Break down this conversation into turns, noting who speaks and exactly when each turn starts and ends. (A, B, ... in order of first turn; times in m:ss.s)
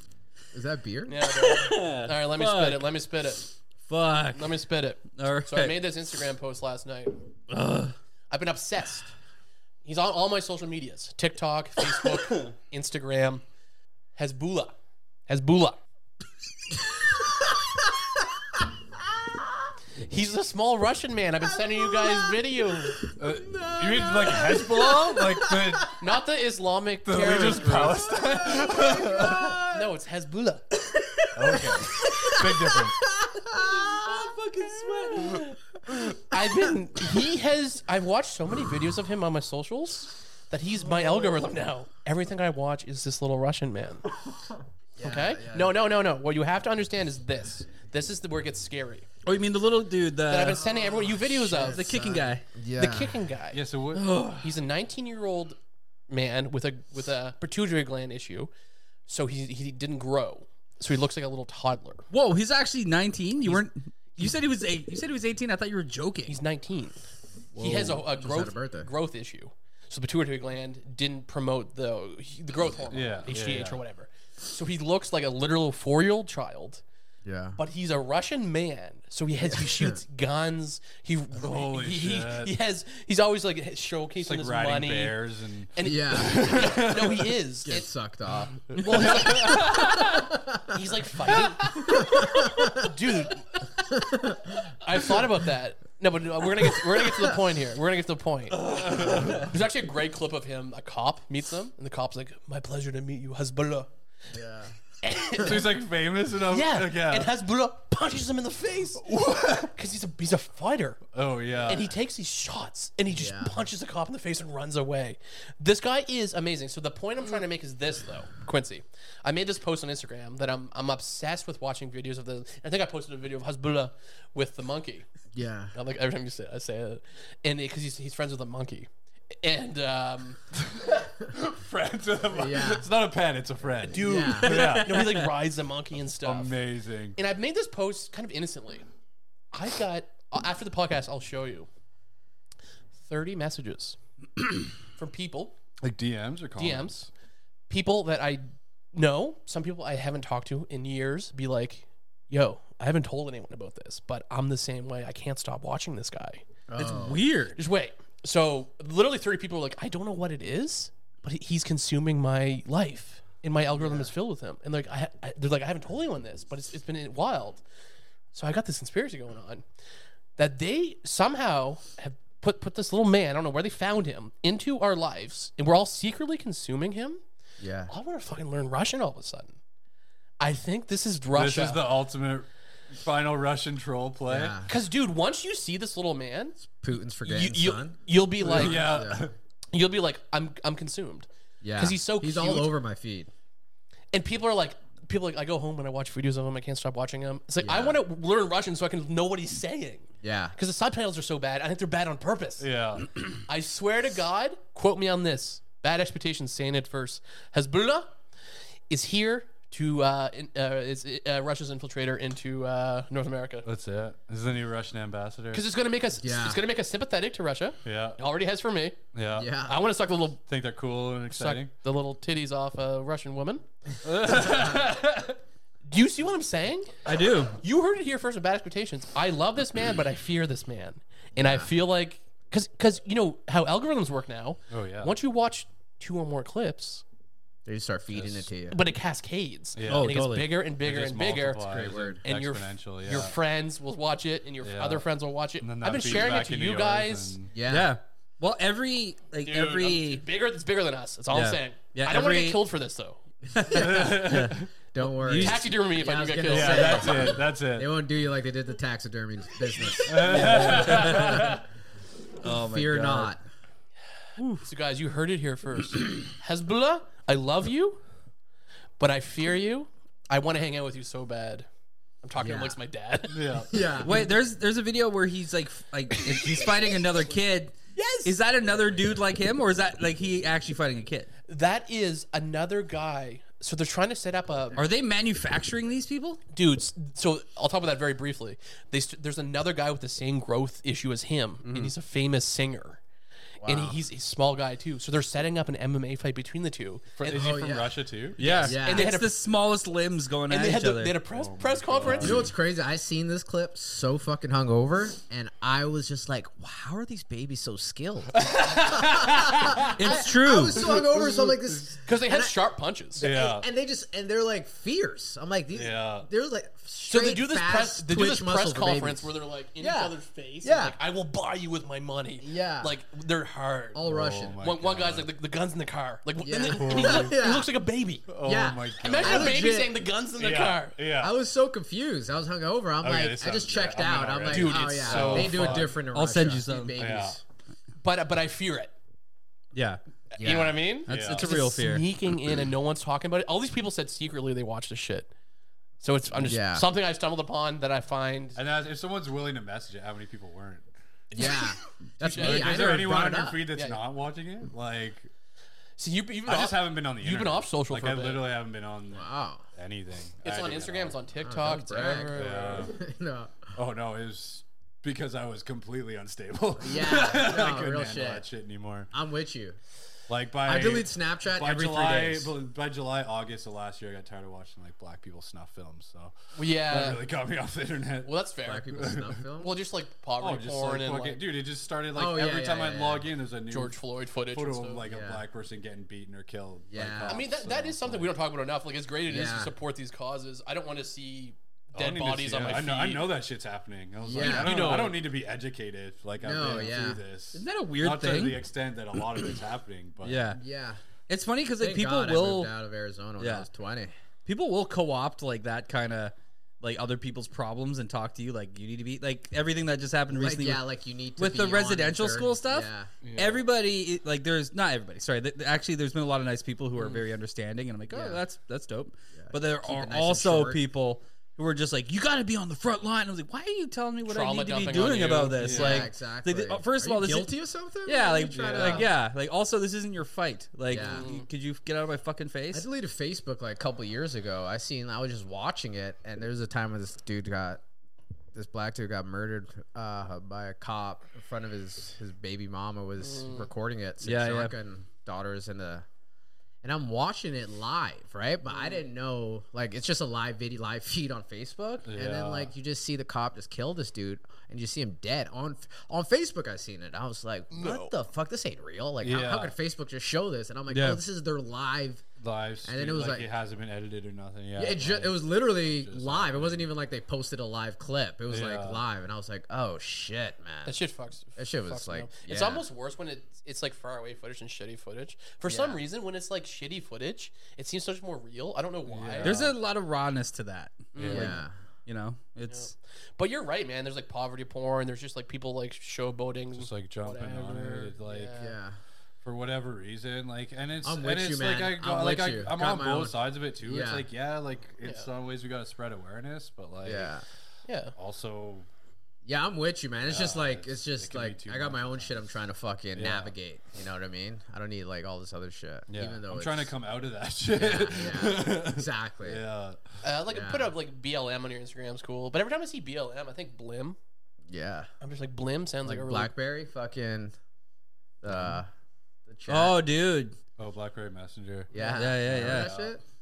0:00.5-0:01.2 A
0:01.0-0:03.5 B
0:01.4-0:02.9 C
0:03.9-0:04.6 C
0:04.3-0:07.2 B
0:05.1-0:05.8 C
0:07.5-0:07.9 C
0:08.3-0:09.1 B
0:09.8-0:13.4 B
0:14.2-0:14.8 B
0:15.3-0:15.8 B
0:20.0-0:23.0 B
0:21.5-0:26.0 A
0:23.2-0:26.0 D
0:26.0-0:28.0 B
0:27.0-0:29.6 D
0:27.2-0:29.9 A
0:29.7-0:30.6 B
0:31.3-0:33.0 D
0:31.5-0:34.3 A
0:33.5-0:35.5 C
0:35.0-0:35.4 A
0:36.3-0:44.0 B
0:45.0-0:45.7 A
0:45.0-0:49.1 B
0:49.2-0:50.7 C
0:50.3-0:51.9 B
0:50.7-0:53.2 A
0:51.5-0:52.4 C
0:52.8-0:53.6 B
0:53.5-0:54.2 D
0:53.9-0:54.5 C
0:54.4-0:55.6 B
0:56.1-0:58.5 B
0:59.1-1:02.1 B
1:02.1-1:06.4 C
1:06.3-1:07.0 B
1:07.5-1:08.9 A
1:07.6-1:16.8 B
1:12.9-1:13.8 D
1:17.2-1:17.6 A
1:17.6-1:25.2 B
1:19.5-1:20.0 A
1:21.4-1:22.5 D
1:24.2-1:27.3 D
1:25.7-1:27.9 B
1:25.8-1:26.4 A
1:27.6-1:29.2 A
1:28.7-1:30.3 D
1:28.7-1:30.1 B
1:30.2-1:30.8 A
1:30.7-1:33.6 B
1:31.8-1:32.9 A
1:33.8-1:34.7 A
1:34.8-1:43.9 B
1:38.6-1:39.5 D
1:44.3-1:44.7 A
1:45.0-1:45.8 B
1:45.4-1:47.3 D
1:46.5-1:51.0 B
1:49.0-1:49.7 D
1:51.1-1:51.9 D
1:51.7-2:05.0 B
1:53.1-1:53.6 A
2:05.3-2:05.7 A
2:05.7-2:10.4 B
2:10.6-2:15.1 D
2:12.3-2:12.9 A
2:13.9-2:16.6 B
2:13.9-2:14.8 A
2:14.8-2:15.2 C
2:16.2-2:17.2 D
2:17.2-2:18.8 B
2:19.5-2:21.7 B
2:23.0-2:24.0 B
2:25.0-2:25.6 B
2:25.8-2:27.1 D
2:26.6-2:27.1 B
2:27.7-2:36.4 B
2:36.7-2:37.3 A
2:36.8-2:37.6 C
2:37.5-2:47.6 B
2:43.8-2:44.1 A
2:48.3-2:49.6 B
2:50.4-2:57.2 B
2:57.6-2:57.9 A
2:57.9-2:59.6 B
3:00.4-3:01.8 B
3:01.3-3:04.6 D
3:04.3-3:04.7 A
3:04.6-3:06.6 B
3:06.6-3:09.3 A
3:07.2-3:08.9 B
3:08.4-3:09.3 D
3:09.7-3:12.7 B
3:11.6-3:13.3 A
3:14.1-3:22.7 B
3:17.6-3:18.0 A
3:20.2-3:20.6 A
3:22.6-3:23.1 D
3:23.5-3:28.1 B
3:28.9-3:33.7 B
3:33.6-3:35.6 D
3:35.5-3:39.0 B
3:36.2-3:36.6 A
3:37.8-3:38.2 D
3:39.1-3:39.5 D
3:39.3-3:39.8 A
3:39.6-3:40.4 B
3:40.5-3:41.7 D
3:41.3-3:43.6 B
3:44.0-3:45.4 D
3:45.9-3:47.0 B
3:47.0-3:47.6 C
3:47.5-3:57.0 B
3:51.4-3:51.7 A
3:54.7-3:55.1 D
3:57.6-3:58.8 A
3:58.1-3:58.5 D
3:58.7-4:07.4 B
3:59.8-4:00.2 D
3:59.9-4:00.6 C
4:00.8-4:03.4 D
4:01.6-4:02.2 A
4:04.6-4:05.0 D
4:05.6-4:07.5 D
4:07.5-4:07.9 A
4:07.7-4:10.2 C
4:09.4-4:13.2 B
4:11.3-4:12.6 C
4:13.5-4:15.7 C
4:13.6-4:21.6 A
4:13.7-4:14.7 D
4:15.3-4:17.3 B
4:16.5-4:18.0 D
4:20.0-4:21.6 D
4:20.2-4:21.6 C
4:22.4-4:23.3 C
4:22.4-4:23.4 A
4:24.4-4:24.6 C
4:24.6-4:28.0 B
4:29.0-4:31.7 B
4:32.2-4:33.6 B
4:32.4-4:32.8 A
4:33.3-4:33.8 D
4:33.7-4:34.3 A
4:34.0-4:41.3 C
4:37.9-4:38.3 B
4:41.5-4:44.8 B
4:44.8-4:46.4 C
4:46.5-4:53.0 B
4:51.6-4:51.9 C
4:53.6-4:54.0 A
4:53.6-4:57.8 B
4:57.2-4:58.4 D
4:57.3-4:58.1 A
4:58.4-4:59.3 B
4:58.4-5:01.2 C
4:58.6-4:59.1 A
5:00.5-5:02.5 B
5:01.3-5:02.5 D
5:02.2-5:12.5 A
5:08.3-5:12.0 D
5:09.9-5:10.9 C
5:12.0-5:13.3 B
5:13.2-5:21.0 A
5:13.2-5:13.6 D
5:15.7-5:16.3 D
5:17.0-5:28.3 B
5:22.4-5:22.9 A
5:23.9-5:24.6 A
5:24.0-5:25.3 D
5:26.4-5:27.7 A
5:26.7-5:27.4 D
5:28.3-5:29.6 D
5:28.4-5:30.0 A
5:29.0-5:31.0 B
5:30.4-5:31.3 D
5:31.2-5:37.4 A
5:33.0-5:36.0 D
5:34.5-5:35.8 B
5:36.1-5:37.0 C
5:37.0-5:37.4 D
5:38.0-5:38.9 B
5:39.7-5:40.0 C
5:40.3-5:45.3 B
5:40.4-5:40.8 A
5:41.0-5:42.1 C
5:41.1-5:41.5 D
5:46.0-5:48.6 B
5:46.4-5:46.8 A
5:48.6-5:50.9 D
5:51.3-5:53.1 B
5:51.3-5:53.6 A
5:52.3-5:55.3 D
5:53.7-5:54.0 B
5:56.0-5:58.5 B
5:56.5-6:01.2 D
5:59.1-5:59.6 A
6:00.4-6:02.9 B
6:01.4-6:03.7 A
6:02.3-6:02.9 D
6:03.8-6:09.1 D
6:06.8-6:08.4 A
6:09.1-6:09.8 A
6:10.3-6:18.3 D
6:10.6-6:12.5 A
6:16.5-6:17.2 B
6:18.2-6:21.4 B
6:18.6-6:19.8 A
6:18.9-6:19.4 D
6:20.4-6:24.0 D
6:22.1-6:23.3 A
6:23.7-6:25.0 B
6:24.5-6:28.3 D
6:25.0-6:25.4 A
6:26.9-6:27.4 A
6:27.3-6:33.4 B
6:29.3-6:29.7 A
6:32.0-6:40.4 D
6:34.2-6:35.0 A
6:34.3-6:35.2 B
6:36.4-6:37.2 A
6:37.5-6:38.6 C
6:40.2-6:40.6 C
6:40.5-6:41.0 A
6:41.3-6:42.7 C
6:41.8-6:44.1 A
6:43.4-6:43.7 C
6:44.4-6:50.8 C
6:50.3-6:53.1 A
6:51.4-7:07.5 C
6:53.2-6:53.6 D
6:58.1-6:58.4 A
6:59.4-7:00.8 A
7:04.2-7:06.0 B
7:05.6-7:06.0 D
7:05.6-7:09.1 A
7:08.0-7:12.9 C
7:08.5-7:09.1 D
7:10.9-7:11.3 A
7:10.9-7:11.4 B
7:12.7-7:17.8 A
7:18.5-7:26.0 A
7:23.2-7:23.7 B
7:24.2-7:24.7 C
7:26.8-7:42.2 A
7:28.7-7:29.0 B
7:32.0-7:32.7 D
7:37.7-7:38.1 B
7:39.2-7:39.8 D
7:40.9-7:41.2 C
7:42.4-7:46.9 D
7:42.8-7:43.5 A
7:44.8-7:51.0 A
7:48.5-7:49.0 D
7:50.8-7:59.6 B
7:51.6-7:52.8 A
7:55.6-7:56.0 A
7:59.1-7:59.7 D
7:59.4-8:01.5 C
8:01.1-8:01.6 B
8:01.1-8:01.6 D
8:01.3-8:01.7 A
8:02.0-8:02.9 C
8:02.7-8:08.8 B
8:06.7-8:08.6 D
8:08.5-8:09.0 A
8:09.4-8:17.4 D
8:11.0-8:14.2 A
8:15.0-8:15.3 B
8:17.0-8:17.4 A
8:17.9-8:18.1 B
8:18.2-8:18.9 D
8:19.4-8:26.9 A
8:20.3-8:22.3 D
8:23.1-8:23.5 D
8:26.1-8:30.0 D
8:27.7-8:29.6 A
8:30.2-8:34.2 B
8:30.5-8:30.9 A
8:34.7-8:35.1 A
8:35.2-8:36.5 B
8:36.0-8:37.5 A
8:38.4-8:38.9 A
8:39.4-8:40.0 A
8:39.7-8:40.6 C
8:40.8-8:43.2 D
8:41.9-8:43.2 A
8:42.0-8:42.9 C